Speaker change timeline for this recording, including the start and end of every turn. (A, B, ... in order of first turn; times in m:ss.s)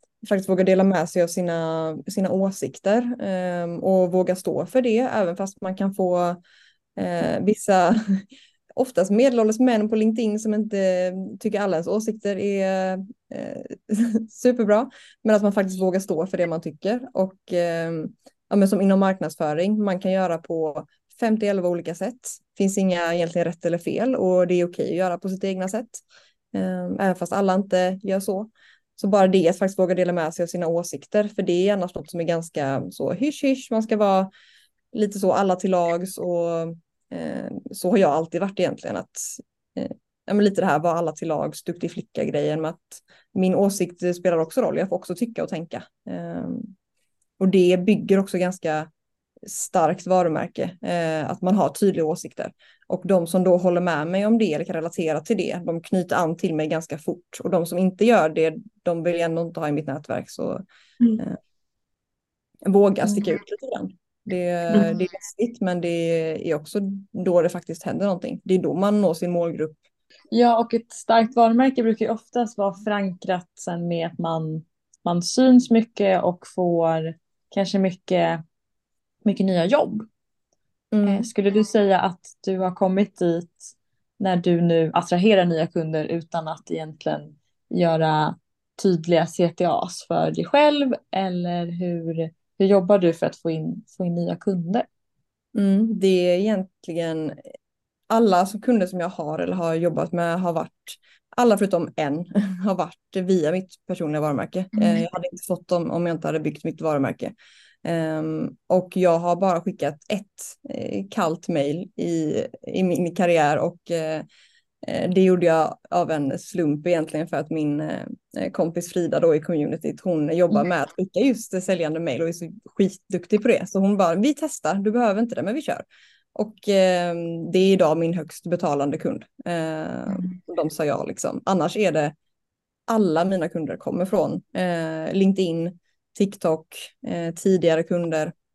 0:00.2-0:06.4 A
0:07.0-0:34.3 A
0:34.9-0:46.7 A
0:47.4-0:48.9 A
0:49.4-1:00.6 A
1:02.6-1:09.8 A
1:10.3-1:18.4 B
1:19.2-1:20.1 B
1:20.9-1:21.3 A
1:21.0-1:34.8 B
1:35.5-1:37.4 A
1:38.1-1:54.2 A
1:44.7-1:45.0 B
1:54.8-2:12.1 A
2:12.9-2:18.3 A